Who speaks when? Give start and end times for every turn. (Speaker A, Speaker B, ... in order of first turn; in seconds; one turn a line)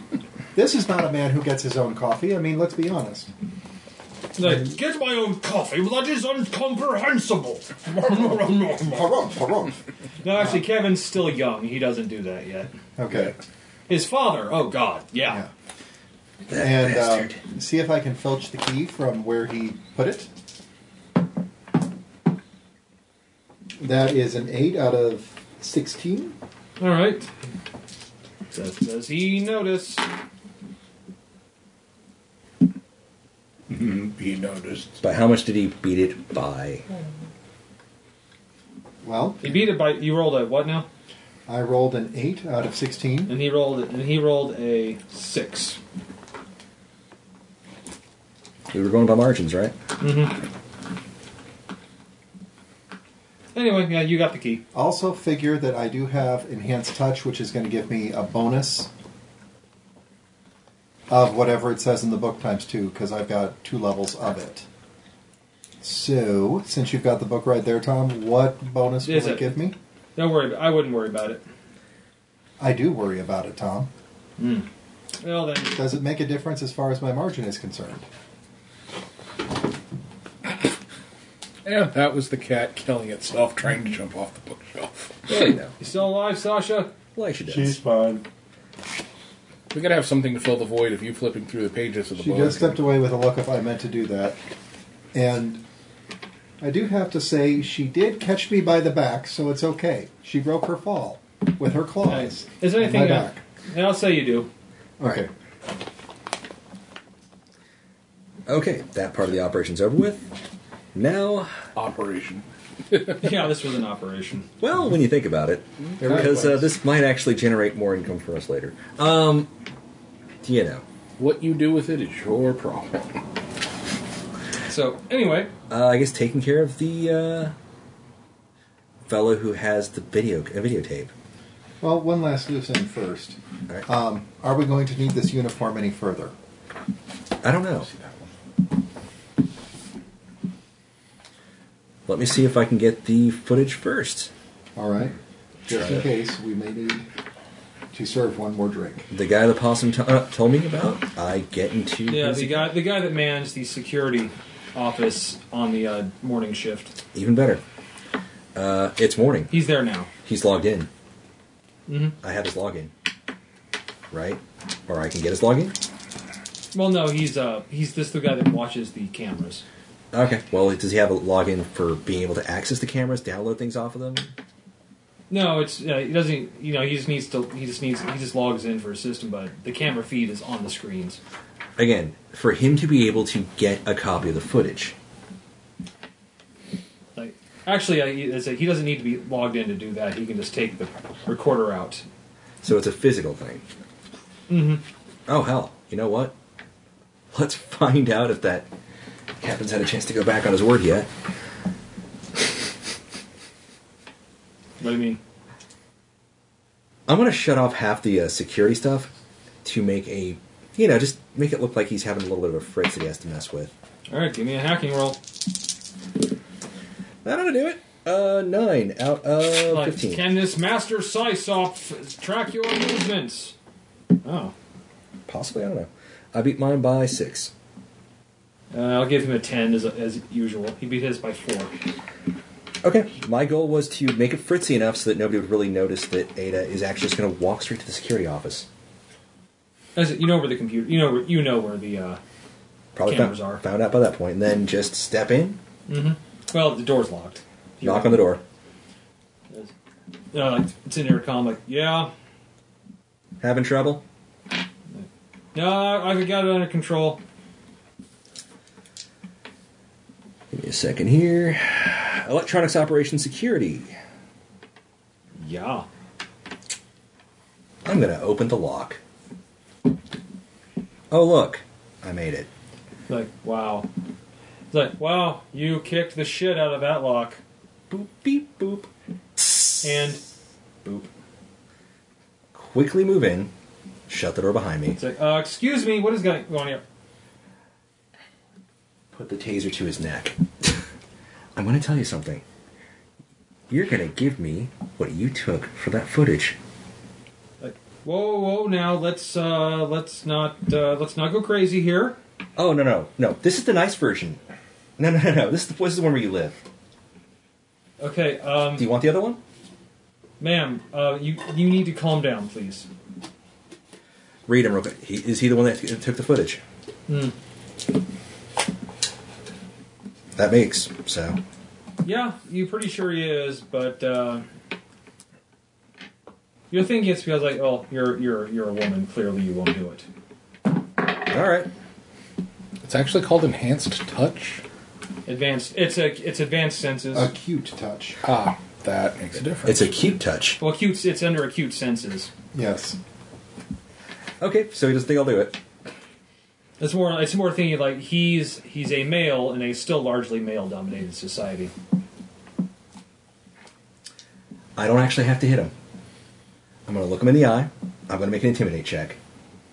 Speaker A: 0.5-3.3
Speaker B: 4.3-9.1
Speaker A: 8.9-9.8
Speaker B: 10.2-12.7
Speaker A: 13.0-13.4
Speaker B: 13.9-15.4
Speaker A: 15.3-15.5
Speaker C: 16.5-17.4
Speaker A: 16.5-20.3
Speaker A: 23.8-26.4
Speaker B: 26.8-27.3
Speaker B: 28.5-30.1
Speaker D: 33.7-35.0
Speaker C: 35.0-36.9
Speaker A: 39.0-39.6
Speaker B: 39.4-40.9
Speaker A: 41.5-43.4
Speaker B: 43.3-45.8
Speaker C: 48.7-49.8
Speaker B: 50.0-50.4
Speaker B: 53.5-54.6
Speaker A: 54.7-58.9
Speaker A: 61.1-64.7
Speaker A: 65.8-69.8
Speaker B: 69.0-69.6
Speaker B: 70.2-71.4
Speaker A: 72.6-73.9
Speaker B: 74.4-74.7
Speaker B: 75.2-75.8
Speaker A: 75.7-78.1
Speaker E: 81.7-85.5
Speaker B: 85.3-86.9
Speaker C: 85.3-85.7
Speaker C: 87.2-87.8
Speaker D: 87.4-88.2
Speaker E: 89.7-92.8
Speaker A: 92.2-94.4
Speaker A: 95.1-95.6
Speaker A: 96.6-103.4
Speaker B: 102.1-104.5
Speaker A: 105.0-105.3
Speaker C: 108.5-110.3
Speaker C: 111.0-111.6
Speaker E: 111.8-113.4
Speaker B: 113.1-114.5
Speaker C: 114.6-119.5
Speaker E: 115.9-116.5
Speaker A: 116.0-116.6
Speaker C: 120.4-120.8
Speaker E: 121.2-123.0
Speaker B: 124.7-125.5
Speaker C: 125.7-127.5
Speaker C: 129.1-131.1
Speaker A: 131.8-136.3
Speaker C: 137.4-137.9
Speaker E: 137.9-138.3
Speaker C: 142.1-144.3
Speaker A: 144.8-145.2
Speaker A: 145.7-147.1
Speaker A: 147.9-149.1
Speaker C: 149.1-152.7
Speaker B: 152.1-157.0
Speaker C: 157.1-157.6
Speaker C: 158.6-159.5
Speaker B: 159.5-160.1
Speaker C: 160.2-160.9
Speaker B: 161.9-162.2
Speaker C: 162.2-162.9
Speaker C: 164.1-165.8
Speaker B: 166.7-169.6
Speaker C: 170.1-174.3
Speaker B: 175.3-181.2
Speaker C: 181.8-185.0
Speaker B: 187.2-192.1
Speaker C: 192.6-193.6
Speaker B: 194.5-194.8
Speaker C: 195.3-196.3
Speaker C: 197.3-198.7
Speaker C: 199.4-201.1
Speaker B: 204.8-205.2
Speaker C: 207.1-209.1
Speaker C: 209.6-213.7
Speaker B: 214.1-215.2
Speaker C: 217.2-220.2
Speaker B: 219.4-223.6
Speaker B: 224.2-224.5
Speaker C: 225.3-227.5
Speaker B: 228.7-231.8
Speaker C: 232.8-238.7
Speaker B: 240.0-242.2
Speaker C: 242.9-245.6
Speaker B: 243.1-243.6
Speaker B: 245.9-248.3
Speaker C: 247.8-248.4
Speaker B: 250.3-252.1
Speaker C: 253.4-254.0
Speaker B: 254.9-257.2
Speaker C: 260.5-263.9
Speaker B: 265.4-265.9
Speaker C: 267.9-269.0
Speaker C: 271.1-272.5
Speaker B: 273.1-273.9
Speaker B: 274.7-277.4
Speaker C: 277.9-279.9
Speaker B: 279.8-280.2
Speaker C: 282.5-283.5
Speaker C: 284.1-285.0
Speaker B: 285.0-286.8
Speaker C: 289.1-290.8
Speaker C: 291.6-292.4
Speaker C: 293.7-296.6
Speaker B: 297.6-302.2
Speaker C: 302.6-304.4
Speaker C: 305.0-306.6
Speaker B: 308.0-308.9
Speaker C: 308.8-309.4
Speaker B: 310.4-312.9
Speaker C: 314.5-316.6
Speaker B: 317.1-317.4
Speaker C: 320.4-321.4
Speaker B: 322.0-324.4
Speaker B: 326.7-330.1
Speaker C: 331.2-331.7
Speaker E: 332.8-334.6
Speaker B: 335.3-337.3
Speaker A: 337.1-338.2
Speaker E: 338.2-339.9
Speaker C: 339.6-340.6
Speaker B: 340.6-342.3
Speaker A: 342.5-343.0
Speaker C: 344.4-345.6
Speaker B: 346.8-351.7
Speaker C: 354.8-355.7
Speaker C: 356.9-359.2